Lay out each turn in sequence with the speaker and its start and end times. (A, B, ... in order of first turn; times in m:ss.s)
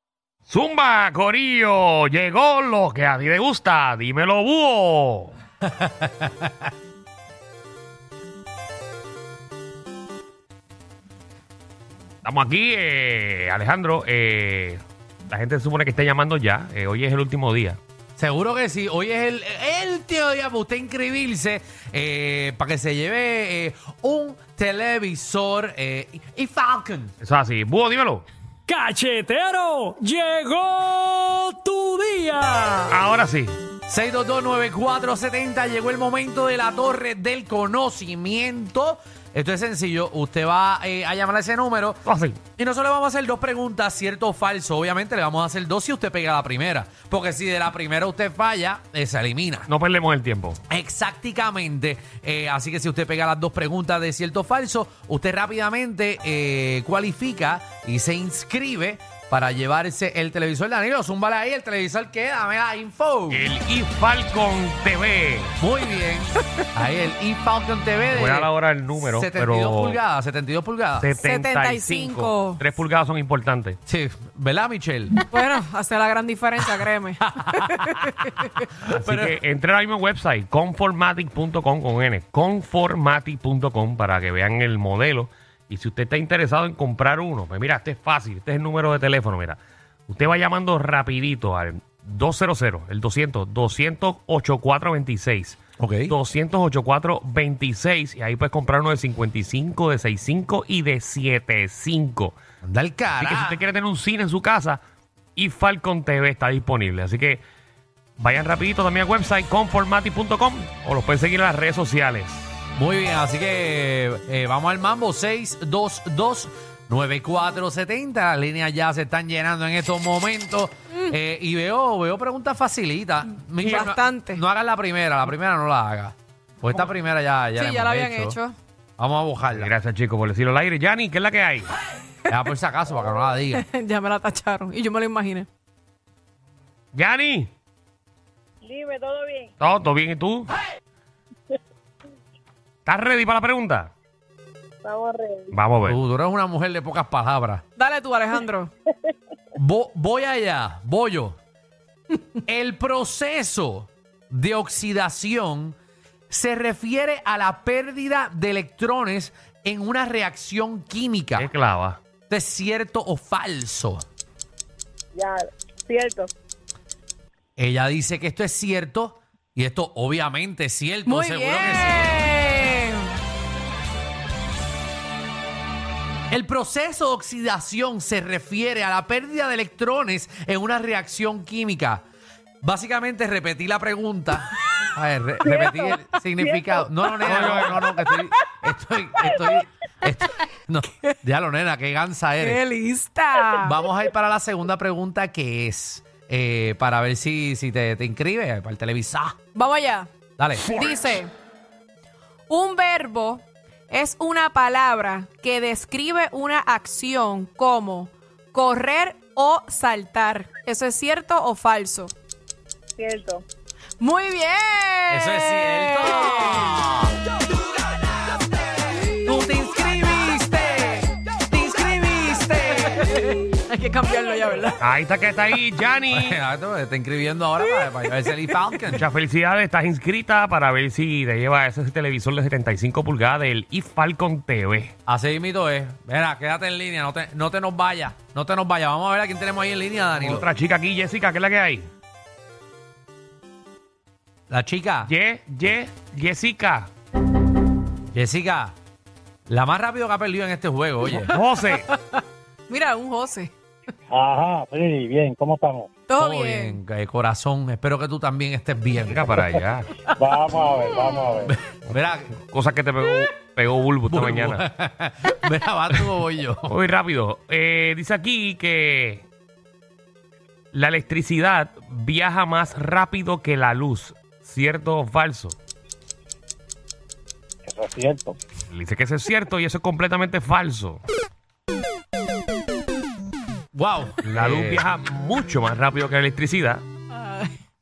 0:00.5-0:05.3 A
0:05.6-0:06.6 B
0:12.2-0:17.8 A
0:18.2-0:27.1 B
0:27.2-0:28.2 A
0:28.7-0:33.0 C
0:32.9-0:33.6 A
0:33.9-0:42.0 B
0:42.0-0:42.4 A
0:42.6-0:49.7 B
0:49.7-0:50.6 A
0:50.7-1:03.4 B
1:03.3-1:05.6 A
1:05.6-1:11.1 B
1:08.1-1:10.0 A
1:11.0-1:13.8 A
1:11.2-1:12.6 D
1:13.9-1:15.2 B
1:15.3-1:18.5 D
1:17.2-1:19.4 B
1:18.9-1:42.4 A
1:35.8-1:36.1 B
1:42.6-1:43.6 B
1:43.2-1:44.8 A
1:45.4-1:47.4 A
1:48.2-1:52.6 A
1:52.8-2:08.4 B
2:03.6-2:04.4 D
2:07.5-2:08.5 D
2:09.0-2:09.7 B
2:09.5-2:11.7 A
2:12.3-2:13.6 B
2:13.5-2:15.5 D
2:16.9-2:17.5 A
2:18.6-2:19.5 E
2:19.6-2:20.5 A
2:22.8-2:23.9 A
2:24.8-2:25.5 E
2:25.5-2:26.0 A
2:25.8-2:27.6 B
2:27.8-2:28.7 D
2:29.5-2:31.4 B
2:32.4-2:35.8 B
2:36.3-2:41.5 B
2:41.4-2:42.0 A
2:42.3-2:44.0 B
2:45.1-2:46.3 E
2:47.6-2:52.2 B
2:51.0-2:53.1 D
2:56.3-3:02.0 B
3:02.6-3:12.6 B
3:05.4-3:07.6 E
3:07.2-3:07.8 A
3:12.4-3:13.7 D
3:13.6-3:19.4 B
3:19.5-3:20.1 D
3:20.4-3:20.9 B
3:20.6-3:21.3 D
3:22.5-3:32.1 D
3:33.0-3:33.4 E
3:34.0-3:36.7 D
3:35.1-3:37.1 B
3:39.2-3:43.2 B
3:42.8-3:44.8 D
3:44.8-3:46.4 A
3:46.1-3:49.0 B
3:48.9-3:54.9 A
3:55.1-4:00.5 B
4:00.1-4:01.9 A
4:04.5-4:05.1 B
4:05.0-4:06.9 A
4:08.1-4:08.8 B
4:09.5-4:11.3 B
4:11.1-4:11.3 D
4:11.3-4:11.9 A
4:11.9-4:13.5 D
4:14.1-4:15.9 F
4:16.1-4:16.8 D
4:16.2-4:19.5 B
4:19.0-4:19.9 A
4:20.2-4:21.4 F
4:20.6-4:21.2 D
4:21.4-4:22.3 B
4:22.4-4:24.6 A
4:24.1-4:26.8 B
4:26.7-4:29.2 A
4:30.7-4:35.6 A
4:37.7-4:38.3 F
4:38.7-4:41.0 A
4:43.7-4:44.8 B
4:44.2-4:46.8 A
4:47.1-4:47.6 D